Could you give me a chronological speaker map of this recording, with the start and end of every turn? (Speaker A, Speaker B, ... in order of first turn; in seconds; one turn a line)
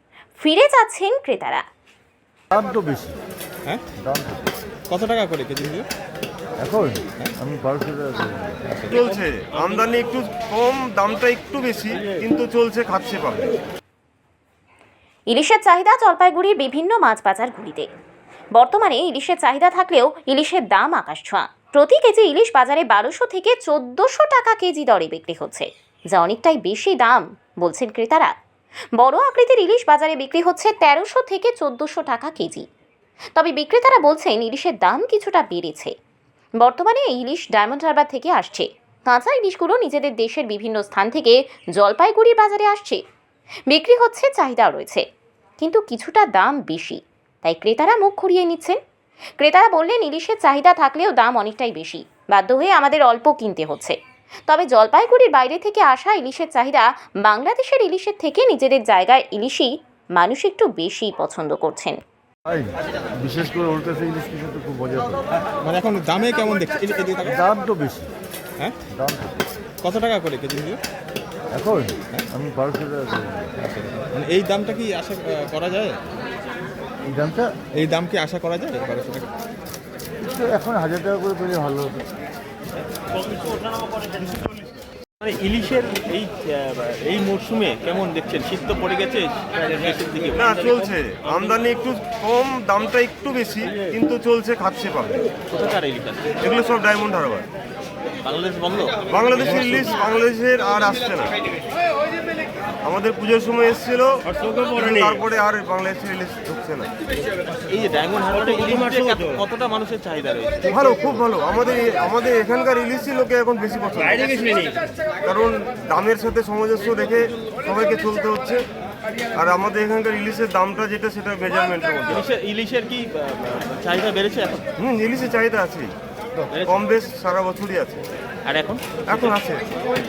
Speaker A: 0.4-1.6
Speaker B: 2.5-3.1
Speaker B: 4.0-4.5
Speaker C: 4.9-5.9
Speaker B: 6.6-8.8
Speaker D: 8.9-13.6
Speaker A: 15.3-17.9
Speaker A: 18.5-28.3
Speaker A: 29.0-32.6
Speaker A: 33.4-35.9
Speaker A: 36.6-43.0
Speaker A: 43.7-45.0
Speaker A: 45.6-48.8
Speaker A: 49.4-54.0
Speaker A: 54.5-62.0
Speaker B: 62.5-65.2
Speaker C: 65.3-67.4
Speaker B: 67.3-68.1
Speaker B: 68.9-69.4
Speaker C: 69.8-70.8
Speaker B: 71.5-73.6
Speaker C: 73.7-76.0
Speaker B: 77.1-77.5
Speaker C: 77.8-79.3
Speaker B: 80.2-82.1
Speaker E: 83.2-84.2
Speaker D: 84.2-84.7
Speaker E: 85.2-91.6
Speaker D: 90.3-95.3
Speaker E: 95.5-96.4
Speaker D: 96.4-97.5
Speaker E: 98.2-100.0
Speaker D: 99.1-101.3
Speaker D: 102.8-104.1
Speaker D: 104.7-106.9
Speaker E: 107.7-110.8
Speaker D: 110.7-118.6
Speaker D: 119.3-122.2
Speaker E: 122.1-124.7
Speaker D: 124.8-125.9
Speaker E: 126.5-126.8
Speaker D: 126.6-128.0
Speaker E: 128.5-129.4
Speaker D: 129.1-129.7